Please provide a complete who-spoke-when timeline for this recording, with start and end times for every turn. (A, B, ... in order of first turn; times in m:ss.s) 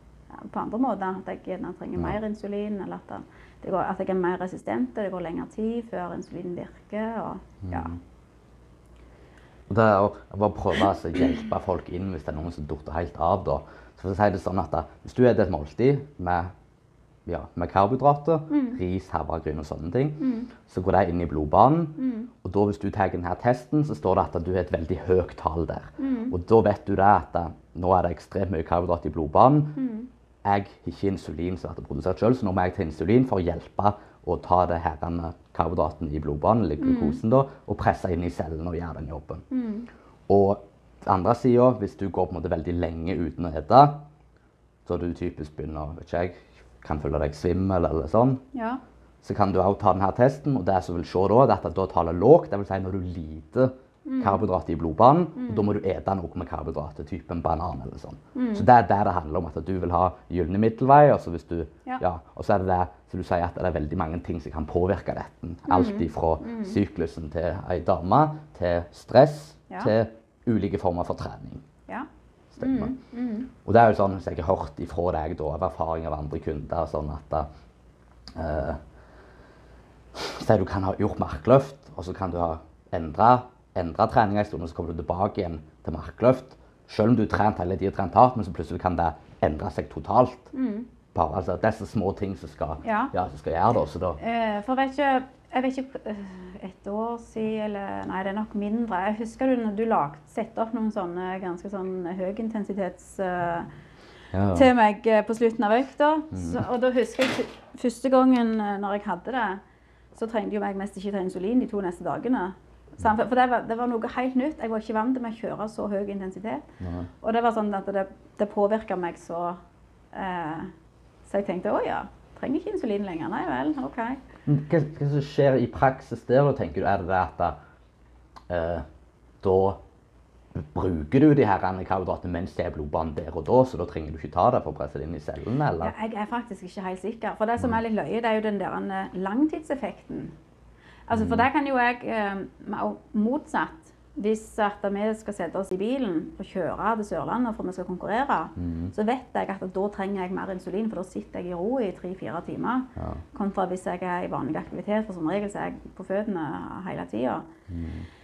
0:00.3-0:07.9 A
0:07.6-0:08.0 B
0:09.7-0:16.5 B
0:17.2-0:29.8 B
0:18.5-0:18.8 A
0:20.2-0:20.5 A
0:22.0-0:22.3 A
0:26.0-0:26.3 A
0:29.8-0:30.1 A
0:30.4-0:39.4 B
0:36.8-0:37.2 A
0:39.5-0:39.9 A
0:40.3-0:44.1 B
0:44.8-0:48.4 B
0:48.5-0:48.8 A
0:49.2-1:11.6 B
0:54.0-0:54.4 A
0:55.4-0:55.8 A
0:58.3-0:58.6 A
1:05.7-1:06.8 A
1:12.5-1:12.9 B
1:12.6-1:13.5 A
1:13.6-1:17.5 B
1:18.4-1:18.8 B
1:20.2-1:30.5 B
1:30.5-1:30.9 A
1:31.1-1:34.2 B
1:32.8-1:33.1 A
1:34.2-1:43.7 A
1:44.3-1:44.7 B
1:44.5-1:49.6 A
1:46.3-1:46.6 B
1:50.1-1:56.6 A
1:56.8-1:57.1 B
1:57.2-1:59.6 A
2:00.1-2:00.7 A
2:01.2-2:04.2 A
2:04.4-2:07.6 B
2:08.5-2:08.8 B
2:09.4-2:09.8 B
2:10.6-2:15.9 B
2:15.8-2:20.4 A
2:21.1-2:37.5 A
2:21.1-2:21.4 B
2:28.6-2:28.9 B
2:33.0-2:33.2 B
2:37.7-2:38.1 B